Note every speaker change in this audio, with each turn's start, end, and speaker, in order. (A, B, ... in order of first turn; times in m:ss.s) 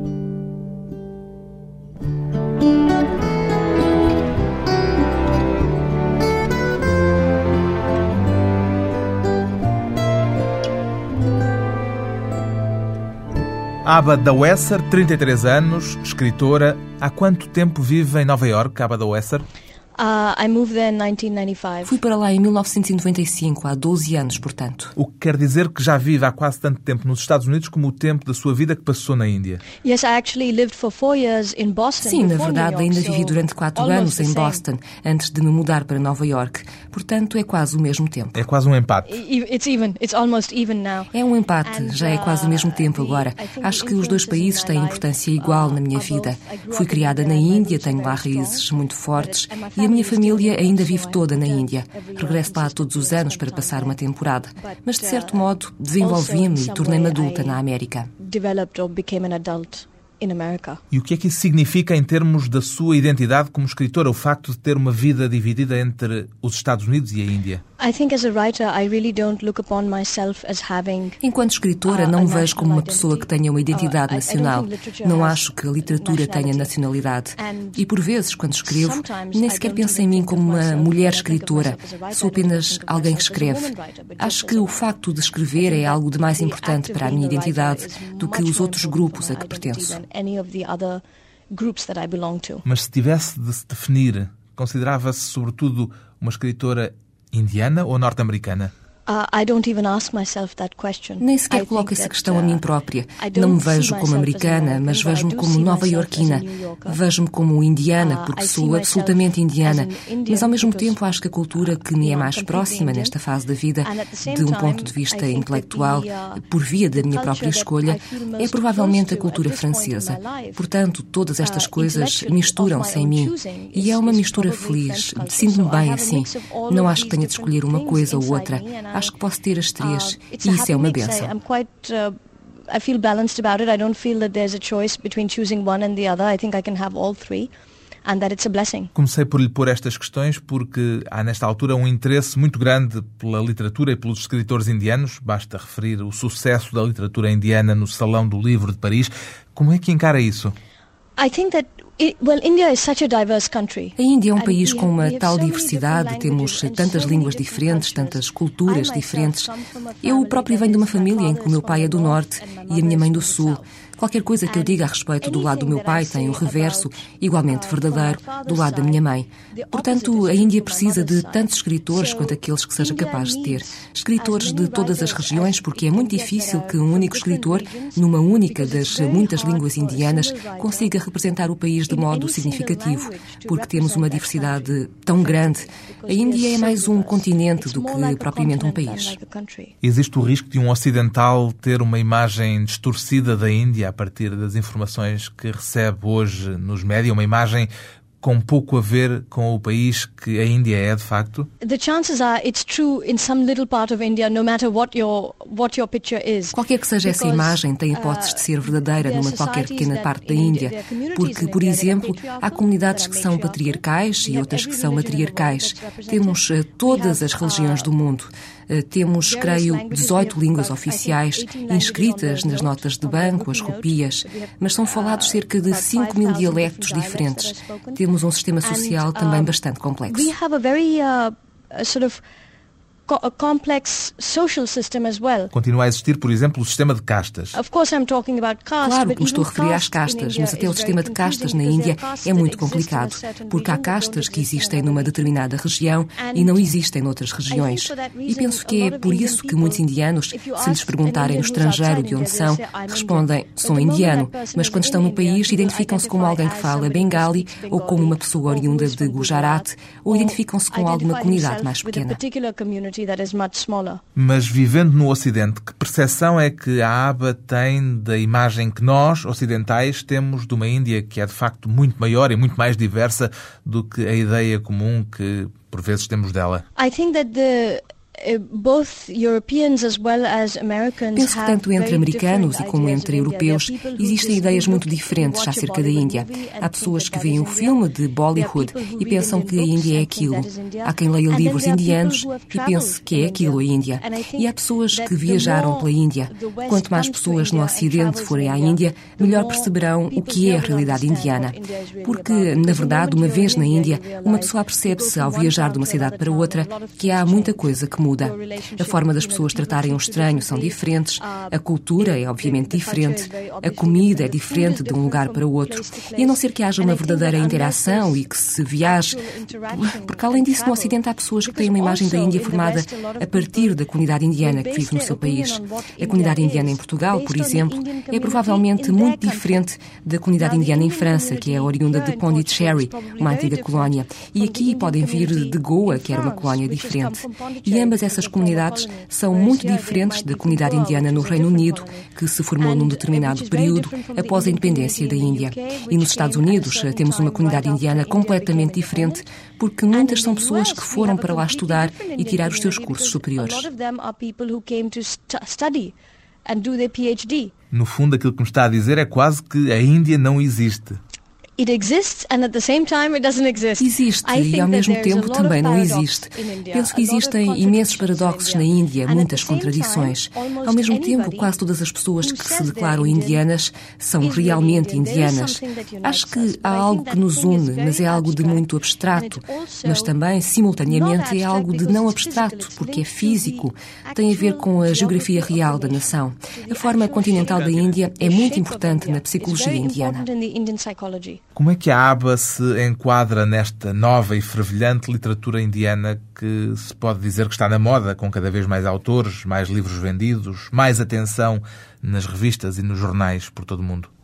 0:13.8-0:19.4 A
0:20.0-0:22.0 B
0:21.8-0:24.9 C
0:25.0-0:29.6 A
0:29.8-0:34.6 B
0:32.0-0:38.4 C
0:38.3-0:39.2 A
0:39.1-0:41.1 B
0:41.1-0:58.1 C
0:41.6-0:54.0 B
0:54.6-0:57.6 B
0:58.2-1:00.8 B
1:00.9-1:07.6 A
1:07.8-1:11.2 B
1:11.2-1:30.0 C
1:11.9-1:16.7 B
1:17.4-1:17.8 B
1:18.6-1:24.9 B
1:25.6-1:32.6 B
1:32.6-1:38.7 A
1:39.1-1:42.6 B
1:41.2-2:11.3 C
1:43.2-1:47.0 B
1:48.0-1:51.0 B
1:51.7-1:53.2 B
1:53.8-2:00.6 B
2:01.4-2:09.1 B
2:09.8-2:12.2 B
2:12.7-2:17.5 B
2:18.0-2:18.9 B
2:18.9-2:30.5 A
2:31.2-2:43.7 B
2:34.0-2:39.5 C
2:40.0-3:09.2 C
2:44.4-3:00.9 B
3:01.9-3:09.7 B
3:09.8-3:17.7 A
3:18.2-3:21.5 A
3:21.6-3:37.9 B
3:26.5-3:50.3 C
3:39.2-3:48.0 B
3:48.6-3:49.5 B
3:50.1-3:52.2 B
3:53.1-3:55.5 B
3:55.5-3:57.6 A
3:57.5-4:05.3 B
3:58.8-4:22.2 C
4:06.2-4:06.7 B
4:07.5-4:24.0 B
4:24.2-4:36.6 A
4:36.8-4:47.8 B
4:41.2-5:53.7 C
4:48.3-5:18.2 B
5:18.8-5:23.8 B
5:24.4-5:29.6 B
5:30.4-5:42.1 B
5:42.6-5:49.2 B
5:49.9-5:55.9 B
5:56.4-5:57.5 B
5:57.7-6:01.0 A
6:01.6-6:11.5 B
6:03.8-6:30.3 C
6:12.2-6:13.4 B
6:14.2-6:20.1 B
6:20.9-6:31.4 B
6:27.4-6:27.9 A
6:31.6-6:44.1 A